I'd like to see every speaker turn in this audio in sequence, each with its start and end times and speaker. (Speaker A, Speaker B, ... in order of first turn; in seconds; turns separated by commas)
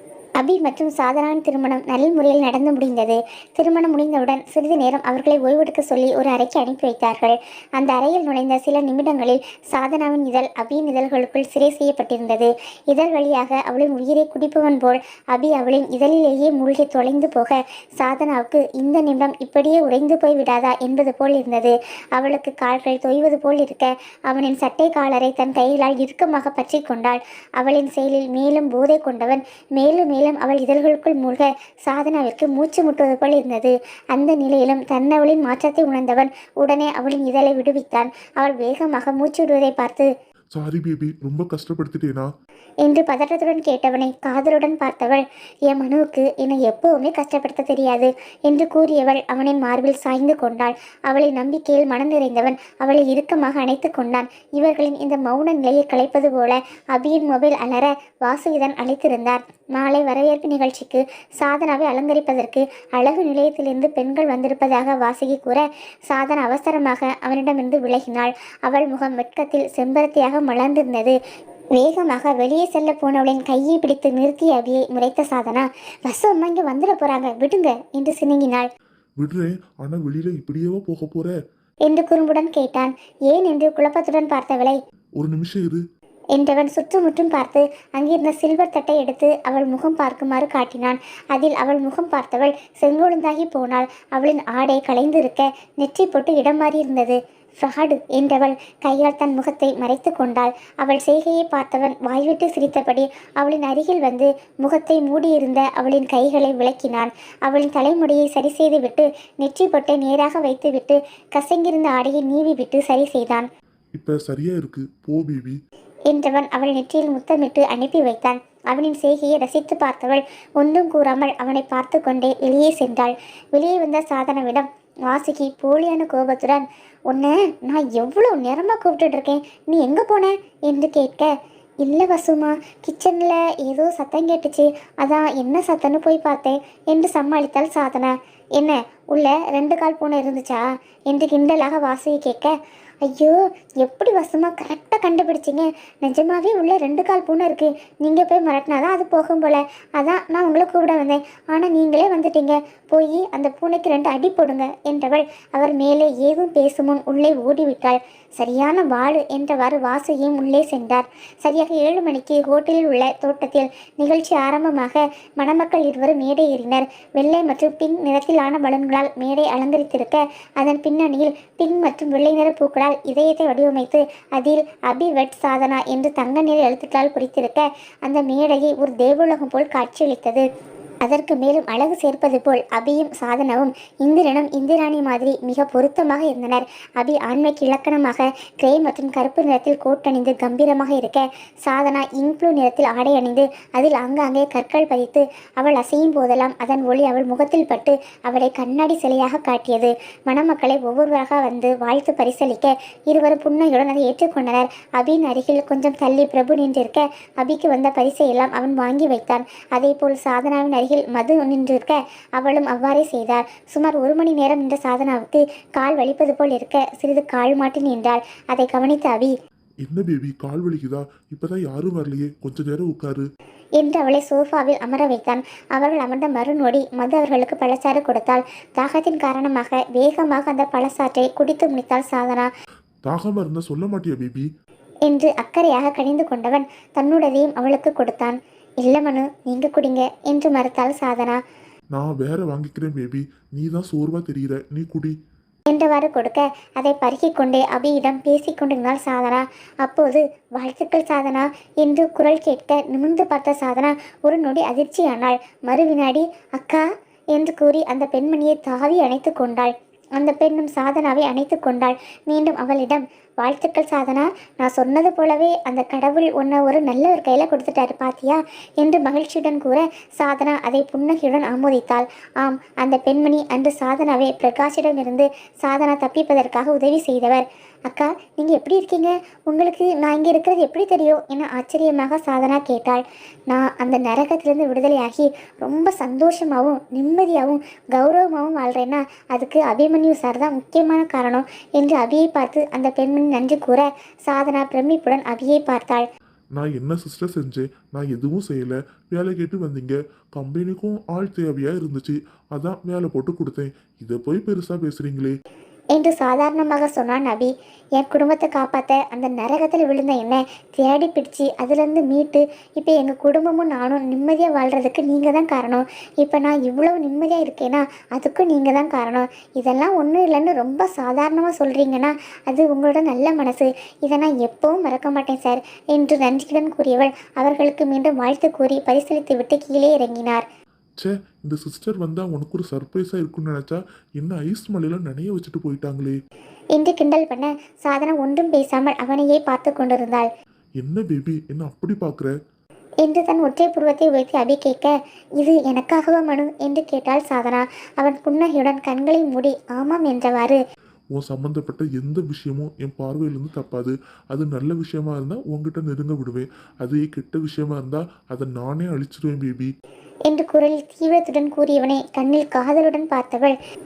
Speaker A: 0.4-40.1, Speaker B: 40.6-42.3, Speaker A: 42.9-71.2, Speaker A: 71.8-78.7, Speaker B: 79.2-81.3, Speaker A: 81.9-84.8, Speaker B: 85.2-85.8, Speaker A: 86.3-113.5, Speaker B: 114.0-115.6, Speaker A: 116.1-131.3, Speaker A: 131.8-142.5, Speaker A: 143.1-180.4, Speaker A: 181.1-219.3, Speaker B: 219.9-223.3, Speaker A: 223.8-232.5, Speaker B: 233.1-234.5, Speaker A: 235.1-241.4, Speaker B: 241.9-245.1, Speaker A: 245.7-296.1, Speaker B: 296.6-305.3, Speaker A: 305.9-330.4, Speaker B: 331.0-336.2, Speaker A: 336.8-340.3, Speaker B: 340.8-342.3, Speaker A: 343.0-350.6, Speaker B: 351.2-359.7, Speaker A: 360.3-363.6